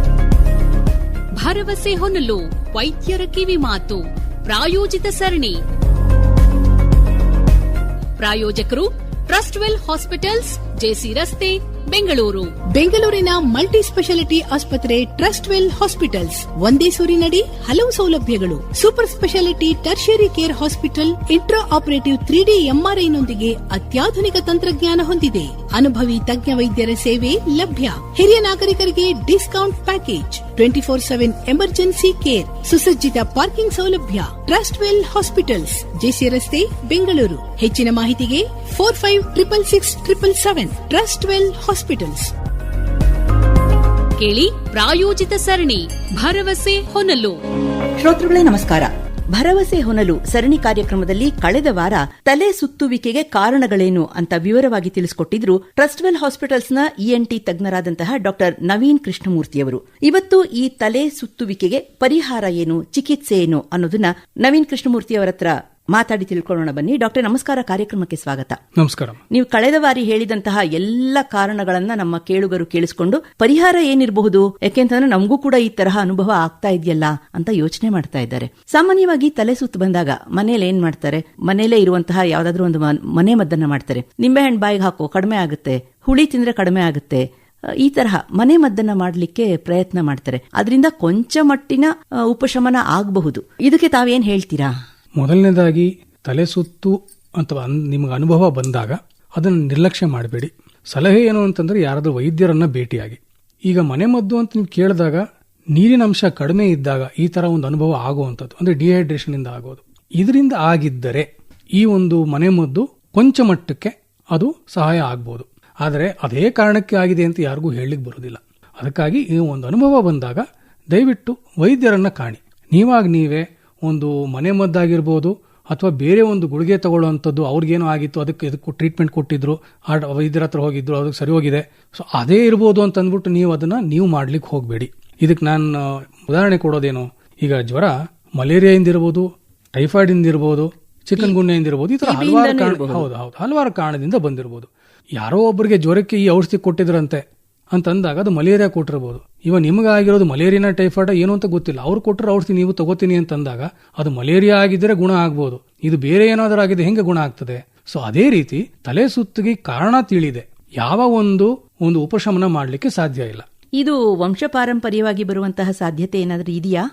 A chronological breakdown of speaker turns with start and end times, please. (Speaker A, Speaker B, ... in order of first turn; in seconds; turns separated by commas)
Speaker A: 1.3-5.6, Speaker A: 8.2-12.5, Speaker B: 12.7-42.3, Speaker A: 44.2-47.4, Speaker C: 48.0-68.6, Speaker D: 68.8-69.2, Speaker C: 69.3-87.2, Speaker C: 87.8-94.7, Speaker D: 95.2-105.2, Speaker D: 105.7-163.4, Speaker C: 142.0-143.1, Speaker C: 163.8-166.8